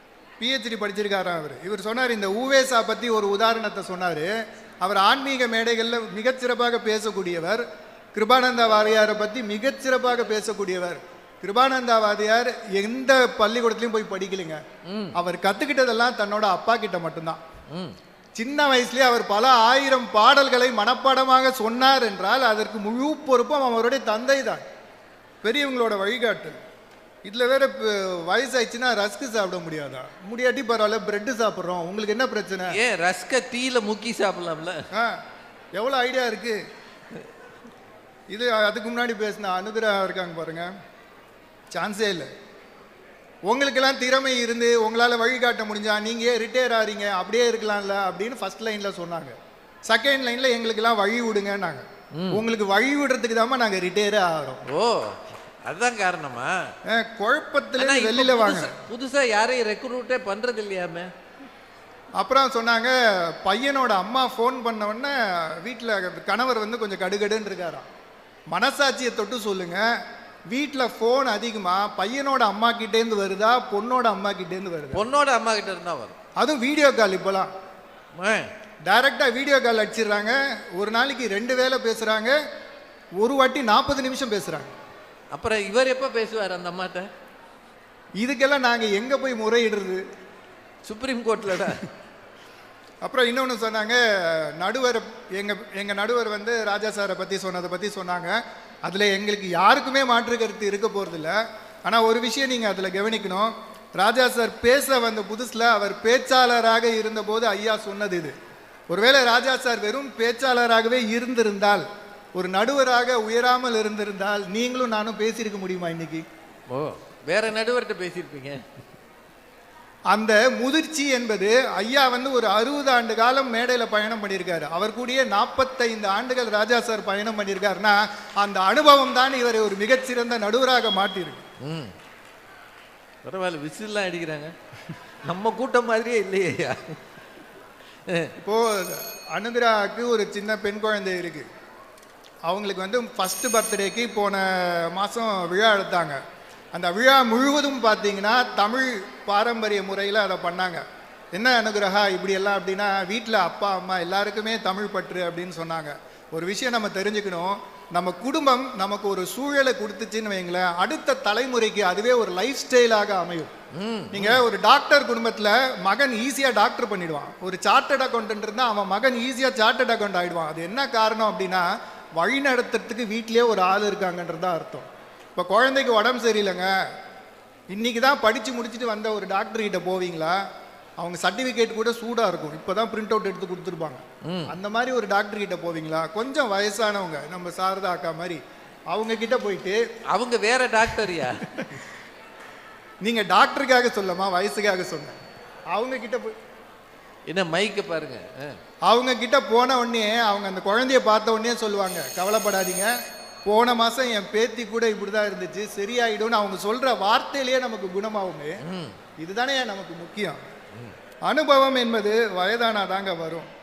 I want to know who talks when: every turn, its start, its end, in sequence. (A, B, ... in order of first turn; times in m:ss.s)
0:00.4-0:07.6 A
0:08.2-0:14.6 A
0:14.9-0:15.2 B
0:15.2-0:17.4 A
0:18.4-0:24.6 A
0:25.4-0:26.6 A
0:27.2-0:32.8 A
0:32.7-0:34.8 B
0:34.9-0:35.2 A
0:35.8-0:36.6 A
0:38.3-0:40.7 A
0:41.7-0:42.3 A
0:43.5-0:49.4 A
0:49.9-0:54.6 A
0:52.2-0:52.4 B
0:54.7-0:56.6 B
0:56.9-0:58.8 A
0:57.8-1:01.1 B
1:02.2-1:07.9 A
1:08.5-1:09.8 A
1:10.5-1:15.0 A
1:14.9-1:16.2 B
1:16.4-1:17.5 A
1:18.2-1:18.5 B
1:18.8-1:22.4 A
1:23.2-1:24.7 A
1:25.3-1:27.1 B
1:28.2-1:30.0 A
1:30.9-1:31.8 B
1:33.0-1:48.3 A
1:48.9-1:51.8 A
1:52.4-1:56.2 A
1:56.7-1:58.6 B
2:00.1-2:11.4 A
2:11.6-2:11.9 B
2:13.2-2:14.5 B
2:15.3-2:17.0 B
2:18.4-2:21.5 A
2:22.5-2:26.2 A
2:26.7-2:30.8 A
2:31.3-2:43.5 A
2:43.8-2:44.4 B
2:44.1-2:51.7 A
2:52.2-2:56.7 A
2:57.7-3:00.4 A
3:01.0-3:09.8 A
3:04.2-3:04.5 B
3:10.1-3:11.5 B
3:13.0-3:15.2 A
3:15.7-3:16.3 A
3:17.3-3:18.6 B
3:18.9-3:22.9 A
3:23.4-3:28.6 A
3:28.6-3:29.0 B
3:29.2-3:30.4 A
3:31.3-3:33.5 A